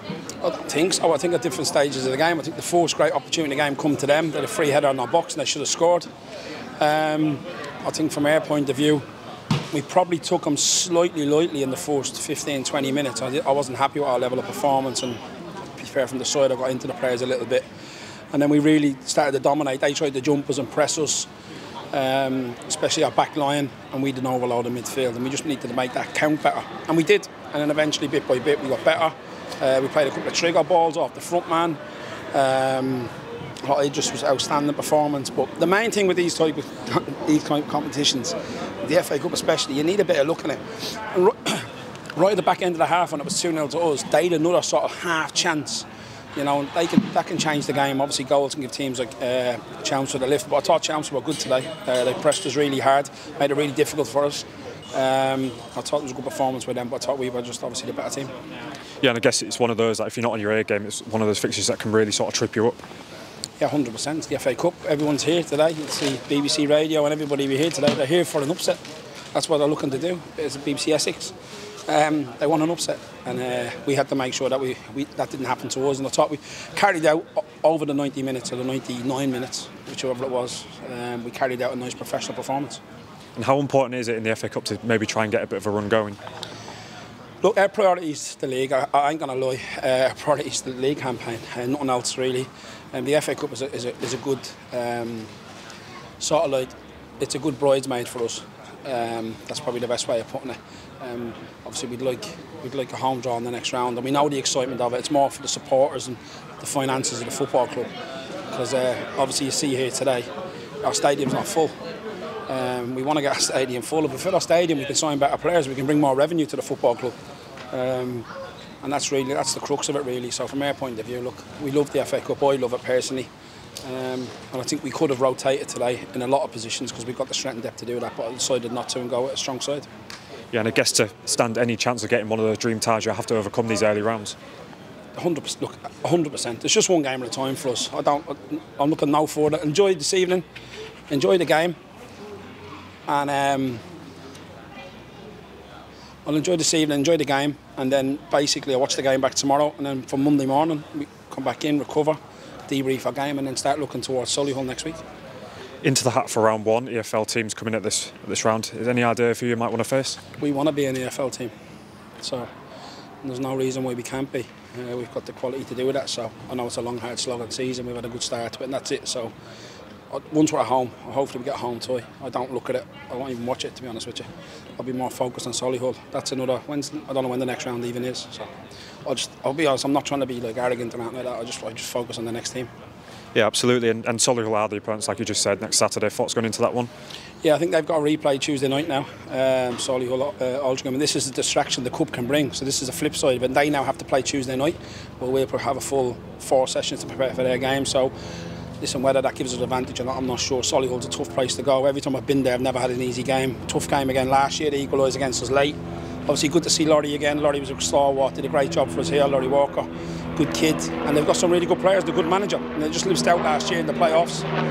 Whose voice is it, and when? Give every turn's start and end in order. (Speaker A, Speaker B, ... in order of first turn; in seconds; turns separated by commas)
Speaker A: 0.4-6.1, Speaker A: 6.8-9.0, Speaker A: 9.7-15.2, Speaker A: 15.8-17.7, Speaker A: 18.3-21.3, Speaker A: 21.9-31.8, Speaker A: 32.3-33.1, Speaker A: 33.6-58.3, Speaker B: 59.0-62.8, Speaker A: 63.6-68.8, Speaker A: 69.3-71.3, Speaker A: 71.9-82.8, Speaker B: 83.4-86.2, Speaker A: 87.4-95.3, Speaker A: 96.2-107.9, Speaker A: 108.5-110.3, Speaker A: 110.8-111.7, Speaker A: 112.5-117.2, Speaker A: 117.7-118.3, Speaker A: 118.8-123.3, Speaker A: 123.8-129.9, Speaker B: 130.5-134.4, Speaker A: 135.2-140.5, Speaker A: 141.1-141.8, Speaker A: 143.1-143.8, Speaker A: 146.2-155.0, Speaker B: 155.8-160.2, Speaker A: 160.4-161.5, Speaker A: 162.2-162.5, Speaker A: 163.2-169.3, Speaker A: 170.1-178.5, Speaker A: 179.1-182.7, Speaker B: 183.3-186.9, Speaker A: 187.4-198.1, Speaker A: 198.8-214.5